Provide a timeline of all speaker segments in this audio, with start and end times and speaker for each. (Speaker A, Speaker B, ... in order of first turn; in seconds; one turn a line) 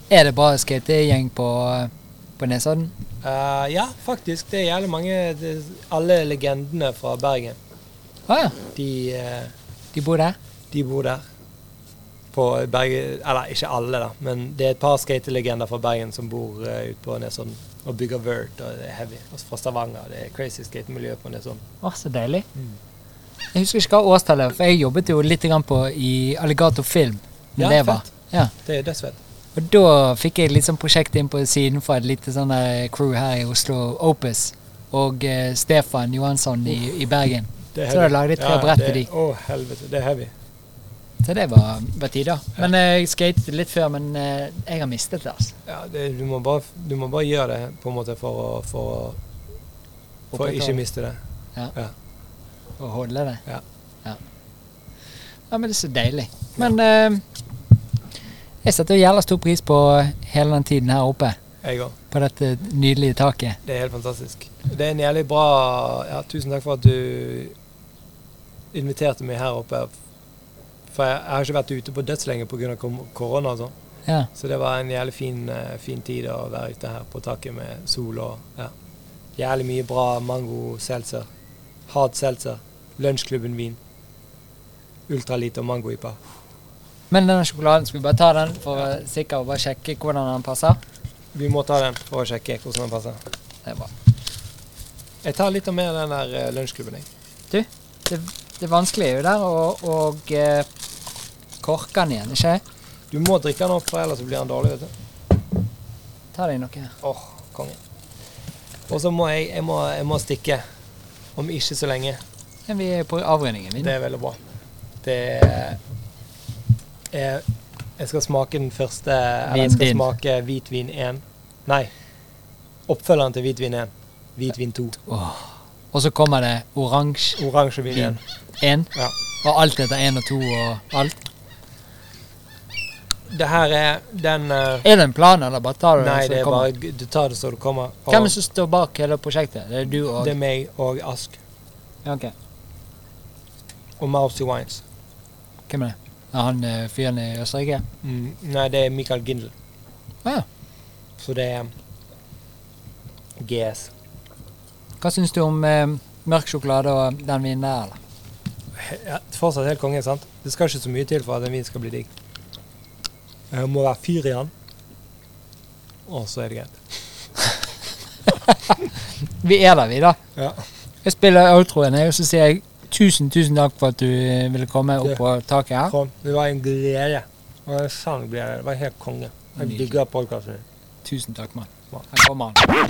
Speaker A: 0.1-2.9
Speaker B: 3.2-7.6
Speaker A: 8.3-8.6
Speaker B: 8.7-9.5
Speaker A: 9.9-10.3
Speaker B: 10.7-11.2
Speaker B: 12.3-21.6
Speaker A: 21.8-22.4
Speaker A: 23.5-28.5
Speaker B: 27.6-28.1
Speaker B: 28.6-29.2
Speaker A: 29.5-39.1
Speaker B: 37.7-40.3
Speaker A: 41.2-45.5
Speaker B: 45.6-49.2
Speaker B: 50.3-51.2
Speaker A: 50.3-50.8
Speaker A: 52.8-53.4
Speaker A: 55.5-57.2
Speaker A: 58.6-61.4
Speaker B: 61.6-62.0
Speaker A: 62.1-63.6
Speaker B: 63.6-67.5
Speaker B: 68.7-69.9
Speaker B: 70.9-73.7
Speaker B: 74.3-78.7
Speaker B: 79.3-81.3
Speaker B: 81.9-83.8
Speaker B: 85.1-86.2
Speaker A: 87.1-90.8
Speaker B: 91.3-93.2
Speaker A: 93.7-93.9
Speaker B: 95.2-97.1
Speaker A: 97.5-100.7
Speaker A: 101.6-102.6
Speaker B: 103.1-104.9
Speaker A: 106.3-106.9
Speaker B: 107.0-107.8
Speaker B: 108.9-110.6
Speaker B: 111.3-112.2
Speaker A: 112.7-113.9
Speaker B: 113.8-114.4
Speaker B: 115.0-115.8
Speaker B: 117.1-117.4
Speaker B: 118.0-121.9
Speaker A: 119.5-120.1
Speaker B: 122.9-125.0
Speaker A: 125.1-128.9
Speaker B: 127.4-128.2
Speaker A: 129.4-131.2
Speaker B: 133.3-134.8
Speaker A: 134.8-136.7
Speaker B: 136.0-138.3
Speaker A: 138.1-140.3
Speaker B: 140.2-141.4
Speaker A: 142.0-142.3
Speaker B: 144.0-144.8
Speaker A: 145.7-147.8
Speaker B: 148.0-149.5
Speaker B: 151.2-151.7
Speaker B: 153.4-153.9
Speaker A: 155.0-158.0
Speaker B: 158.8-162.1
Speaker B: 163.5-164.5
Speaker B: 166.1-166.8
Speaker A: 168.5-170.2
Speaker B: 170.3-170.6
Speaker A: 171.0-175.9
Speaker B: 175.9-180.7
Speaker A: 179.6-179.9
Speaker A: 181.0-182.6